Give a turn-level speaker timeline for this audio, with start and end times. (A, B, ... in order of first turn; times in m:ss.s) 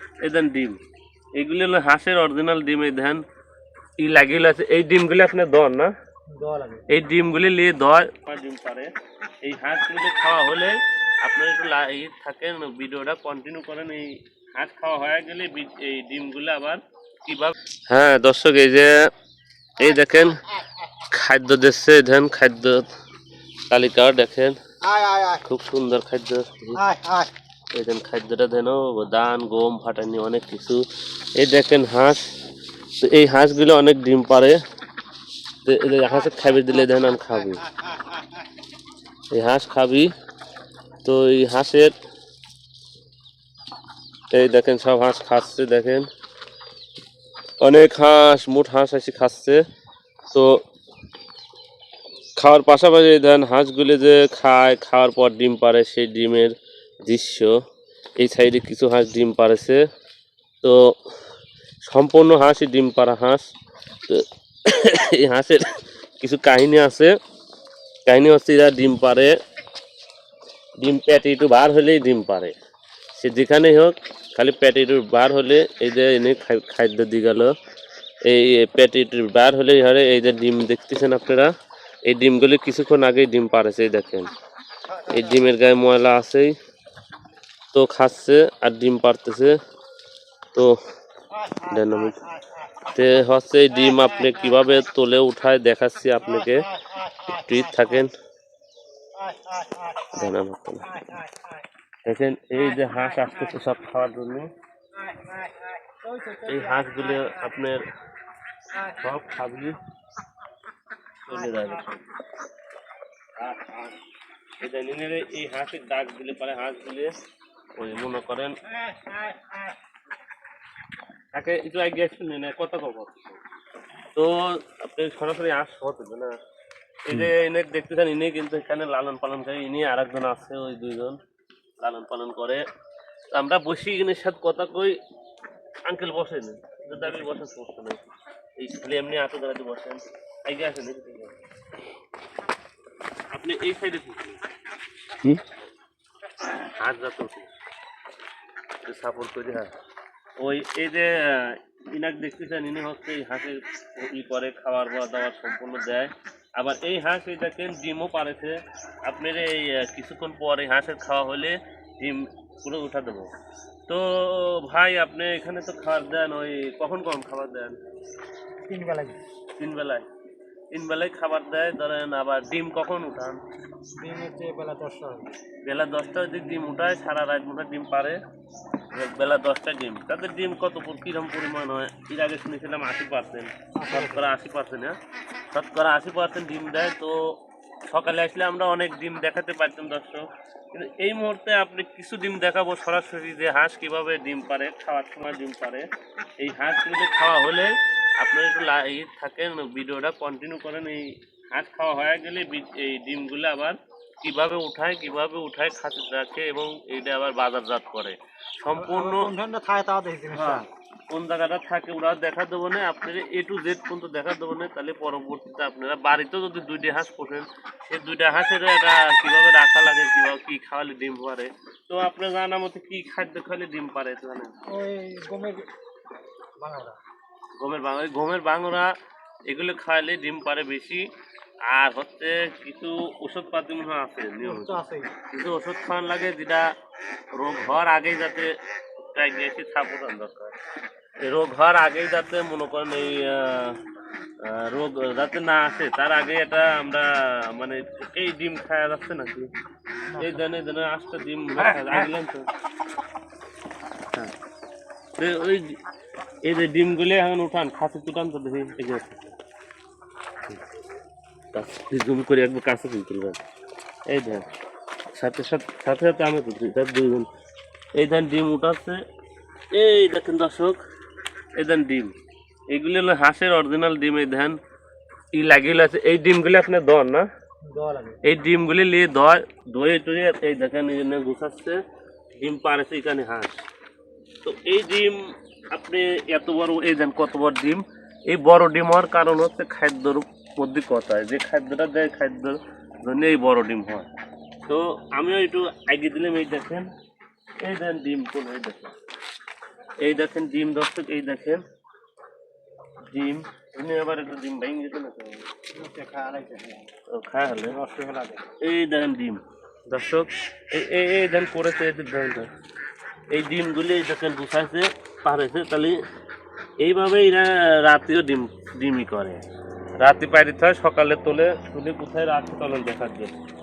0:00.2-0:00.8 A
0:01.4-0:03.2 A
0:04.0-0:05.9 A
0:06.3-0:06.8 B
0:06.9-0:08.9 A
0:09.4-0:18.9 A
0:19.8-0:20.4 A
0:21.0-0:22.9 A
0:23.7-0:24.6 A
0:24.8-0:25.4 B
0:25.4-0:26.8 A
0:26.8-0:27.3 B
0:27.7-0:32.2 A
0:33.0-0:34.6 A
0:35.6-0:37.7 A
0:37.8-0:38.2 B
0:39.3-0:40.1 A
0:41.0-0:41.9 A
0:44.3-0:46.1 A
0:47.6-0:49.6 A
0:50.3-0:50.6 A
0:52.4-0:56.6 A
0:57.1-0:57.6 A
0:58.2-0:59.8 A
1:00.6-1:01.0 A
1:01.8-1:03.5 A
1:04.1-1:07.1 A
1:08.1-1:09.4 A
1:10.8-1:12.6 A
1:13.2-1:17.6 A
1:18.2-1:21.5 A
1:22.1-1:24.3 A
1:24.9-1:25.4 B
1:25.1-1:26.5 A
1:27.7-1:29.6 A
1:31.4-1:32.7 B
1:31.6-1:32.2 A
1:32.9-1:36.7 A
1:36.4-1:38.0 B
1:37.3-1:38.1 A
1:39.2-1:40.2 B
1:40.1-1:40.9 A
1:40.8-1:41.6 B
1:42.0-1:44.5 A
1:42.6-1:43.6 B
1:45.0-1:47.6 B
1:46.4-1:47.8 A
1:48.7-1:49.0 B
1:48.9-1:49.8 A
1:51.3-1:52.0 A
1:51.3-1:51.8 B
1:53.4-1:54.0 A
1:54.6-1:57.1 A
1:57.8-1:58.6 A
1:58.7-1:59.7 B
2:01.3-2:03.4 A
2:04.2-2:06.3 A
2:07.0-2:11.2 A
2:11.8-2:12.7 A
2:13.3-2:15.0 A
2:15.9-2:18.0 A
2:18.6-2:21.3 A
2:23.3-2:24.4 A
2:26.8-2:27.5 A
2:28.8-2:29.7 A
2:30.4-2:43.3 A
2:43.9-2:47.8 A
2:48.6-2:49.2 B
2:49.6-2:50.1 A
2:50.7-2:53.4 A
2:54.0-2:55.4 B
2:55.6-2:58.2 A
2:58.9-3:05.0 A
3:03.8-3:04.2 B
3:05.5-3:07.2 A
3:07.9-3:15.9 A
3:16.4-3:29.3 A
3:28.8-3:30.7 B
3:30.3-3:44.5 A
3:44.7-3:45.7 B
3:46.6-3:47.0 B
3:47.6-3:48.9 A
3:49.5-3:51.1 A
3:51.7-3:54.8 A
3:54.4-3:55.1 B
3:55.3-3:56.7 A
3:57.3-3:58.5 A
3:59.1-4:00.5 A
4:01.2-4:03.8 A
4:04.4-4:09.5 A
4:10.1-4:10.4 B
4:10.2-4:12.5 A
4:15.2-4:15.8 A
4:16.4-4:19.4 A
4:21.5-4:23.4 A
4:24.1-4:24.5 A
4:25.1-4:27.3 A
4:28.0-4:29.0 A
4:29.7-4:30.8 A
4:31.6-4:32.1 A
4:32.7-4:34.6 A
4:35.3-4:37.3 A
4:37.7-4:38.2 B
4:38.2-4:43.6 A
4:44.4-4:54.1 A
4:54.6-4:56.9 A
4:57.6-4:58.9 A
5:00.0-5:01.6 A
5:03.1-5:05.4 A
5:05.7-5:06.9 B
5:07.1-5:07.8 A
5:07.7-5:08.5 B
5:08.6-5:12.5 A
5:13.3-5:16.0 A
5:16.8-5:19.4 A
5:20.0-5:23.4 A